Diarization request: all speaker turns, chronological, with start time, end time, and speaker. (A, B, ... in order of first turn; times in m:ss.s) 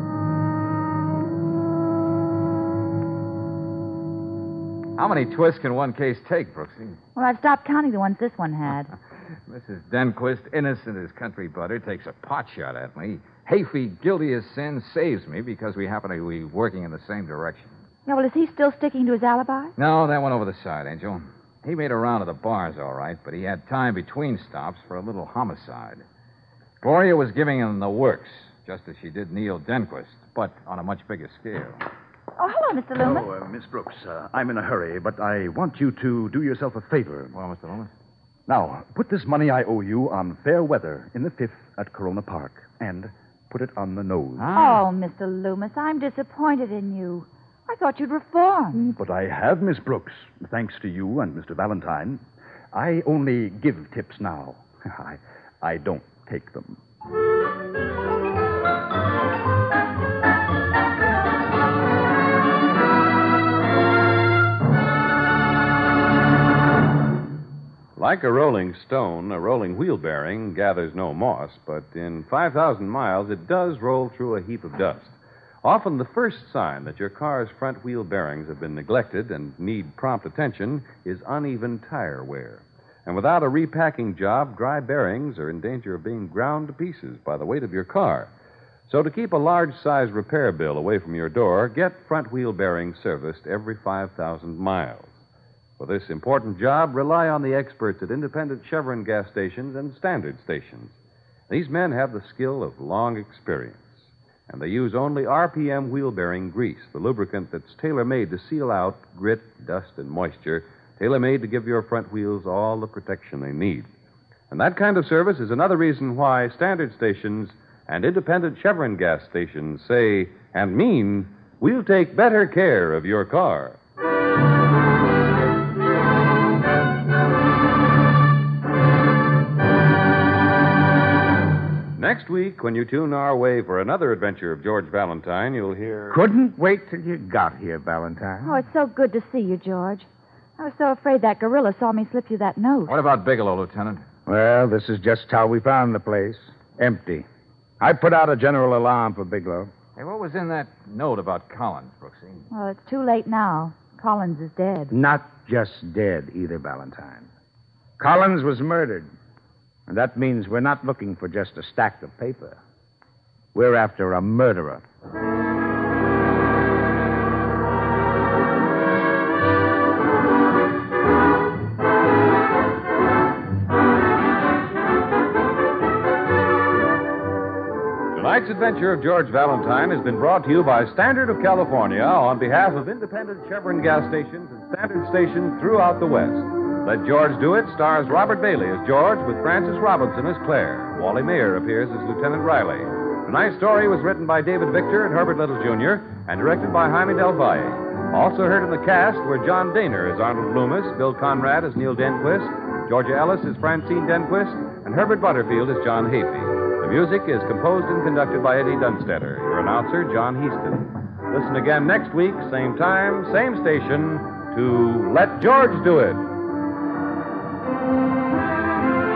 0:05.0-0:07.0 A
0:07.2-0:08.9 B
0:09.5-0:17.7 A
0:18.1-0:19.7 B
0:19.8-0:26.0 A
0:26.8-0:31.8 A
0:32.4-0:33.3 B
0:33.0-0:37.3 C
0:37.3-0:37.9 A
0:38.5-0:44.5 C
0:44.4-0:44.8 A
0:44.6-0:48.9 B
0:48.9-0:56.8 C
1:08.0-1:28.3 D
1:28.9-1:35.2 D
1:35.8-1:41.0 D
1:41.5-1:53.9 D
1:54.5-2:03.8 D
2:12.0-2:16.2 D
2:16.1-2:18.6 E
2:18.4-2:22.9 B
2:22.9-2:24.0 A
2:24.3-2:27.3 E
2:27.8-2:29.7 E
2:30.0-2:32.5 A
2:32.5-2:34.9 B
2:34.9-2:37.3 E
2:38.0-2:39.1 E
2:39.9-2:42.6 E
2:43.5-2:44.8 E
2:58.1-3:36.3 D